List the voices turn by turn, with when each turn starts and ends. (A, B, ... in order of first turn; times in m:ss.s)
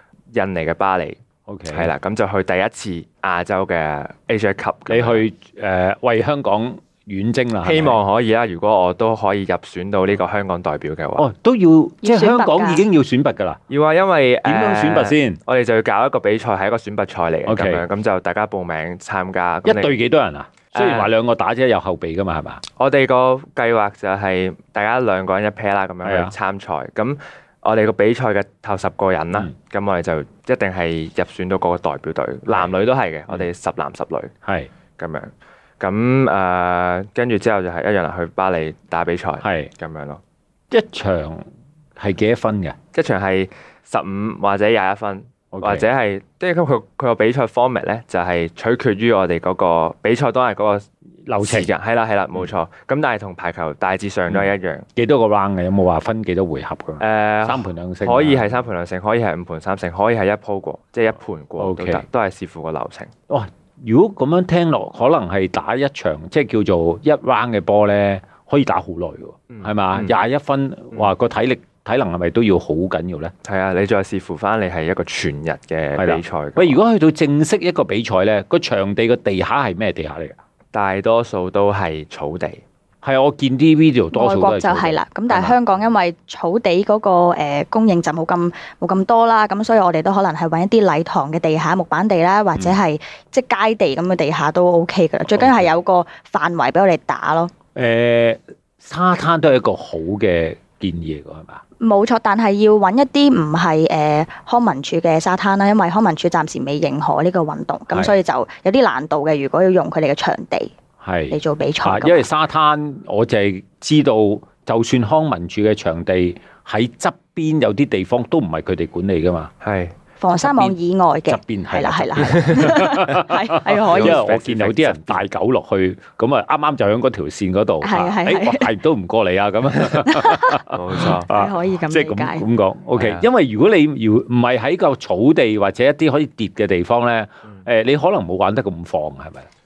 0:00.3-0:05.2 A
0:01.5-0:01.9 B
0:04.9-0:08.0 B
0:07.6-0:11.2 A
0:11.2-0:13.6 B
0:12.0-0:12.8 C
0:13.7-0:20.0 A
0:14.4-0:15.4 B
0:17.4-0:17.8 B
0:19.6-0:22.6 B
0:20.7-0:21.1 A
0:22.8-0:34.3 A
0:26.0-0:26.3 B
0:32.5-0:32.7 B
0:34.4-0:34.7 B
0:35.0-0:40.2 A
0:39.4-0:39.7 B
0:40.7-0:41.4 B
0:42.0-0:42.8 B
0:42.9-0:50.8 A
0:45.5-0:45.8 B
0:51.2-0:51.7 B
0:51.4-0:54.8 A
0:54.3-0:58.6 B
0:57.0-1:03.1 A
1:01.6-1:02.0 B
1:03.3-1:13.3 B
1:09.5-1:10.1 A
1:13.4-1:16.8 A
1:16.0-1:20.3 B
1:20.7-1:22.6 A
1:23.0-1:25.6 B
1:24.1-1:37.5 C
1:35.4-1:35.6 B
1:37.8-1:41.6 B
1:41.8-1:50.7 C
1:51.0-1:59.5 B
1:51.3-1:52.3 C
1:59.6-1:59.9 A
2:00.2-2:04.2 C
2:00.4-2:19.5 B
2:03.7-2:05.2 A
2:07.8-2:08.8 C
2:10.0-2:12.4 C
2:10.7-2:11.3 A
2:13.0-2:13.2 A